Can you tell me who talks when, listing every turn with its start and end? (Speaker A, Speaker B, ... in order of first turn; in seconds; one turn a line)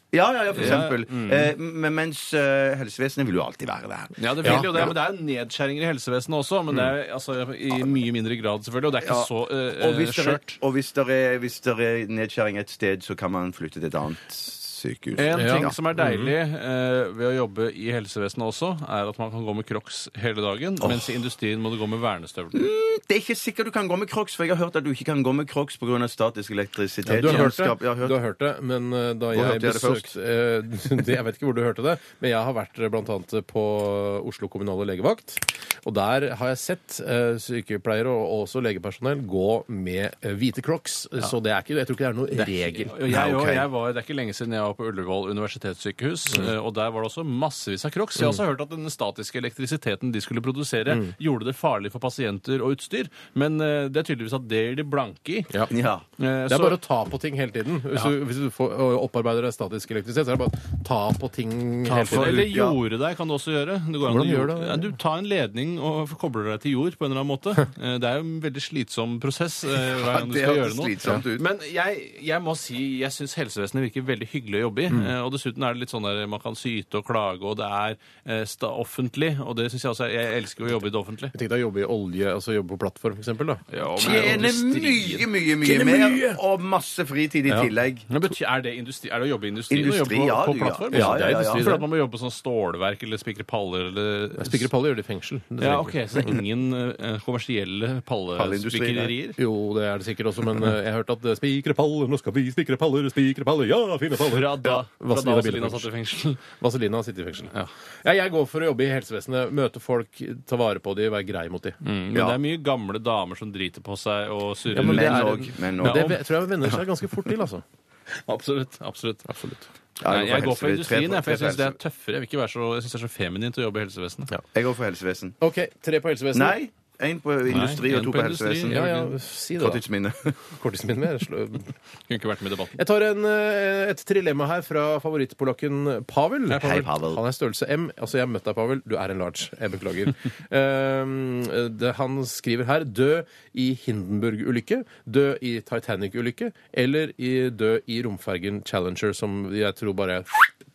Speaker A: 0.1-4.9
Speaker B: 0.5-1.5
Speaker B: 4.2-10.6
Speaker C: 4.4-4.9
Speaker A: 9.0-15.8
Speaker B: 15.2-22.6
Speaker C: 15.3-16.3
Speaker A: 20.8-21.1
Speaker A: 22.5-28.2
Speaker C: 27.1-43.0
Speaker A: 29.3-30.1
Speaker B: 42.4-55.5
Speaker A: 43.1-43.7
Speaker C: 50.9-51.1
Speaker A: 55.7-56.0
Speaker B: 56.2-56.8
Speaker C: 56.5-62.5
Speaker B: 61.9-81.3
Speaker A: 62.1-62.8
Speaker C: 64.0-65.0
Speaker A: 69.8-71.5
Speaker C: 81.3-84.5
Speaker B: 83.7-86.3
Speaker A: 84.0-88.1
Speaker B: 88.1-94.7
Speaker A: 89.7-91.7
Speaker C: 90.9-91.9
Speaker C: 94.4-96.3
Speaker B: 95.6-99.4
Speaker A: 98.4-99.1
Speaker C: 99.4-105.9
Speaker B: 104.2-106.4
Speaker C: 106.4-107.5
Speaker C: 108.0-111.8
Speaker B: 111.8-116.2
Speaker A: 112.1-112.4
Speaker C: 114.7-117.6
Speaker A: 114.8-117.3
Speaker B: 118.3-119.4
Speaker C: 119.3-119.6
Speaker A: 120.0-121.8
Speaker B: 120.0-124.3
Speaker A: 124.5-125.4
Speaker C: 125.4-126.6
Speaker A: 126.3-128.8
Speaker B: 127.5-129.1
Speaker C: 128.7-129.8
Speaker A: 129.6-130.4
Speaker C: 130.5-131.7
Speaker B: 132.1-132.8
Speaker C: 132.8-150.3
Speaker A: 136.5-137.2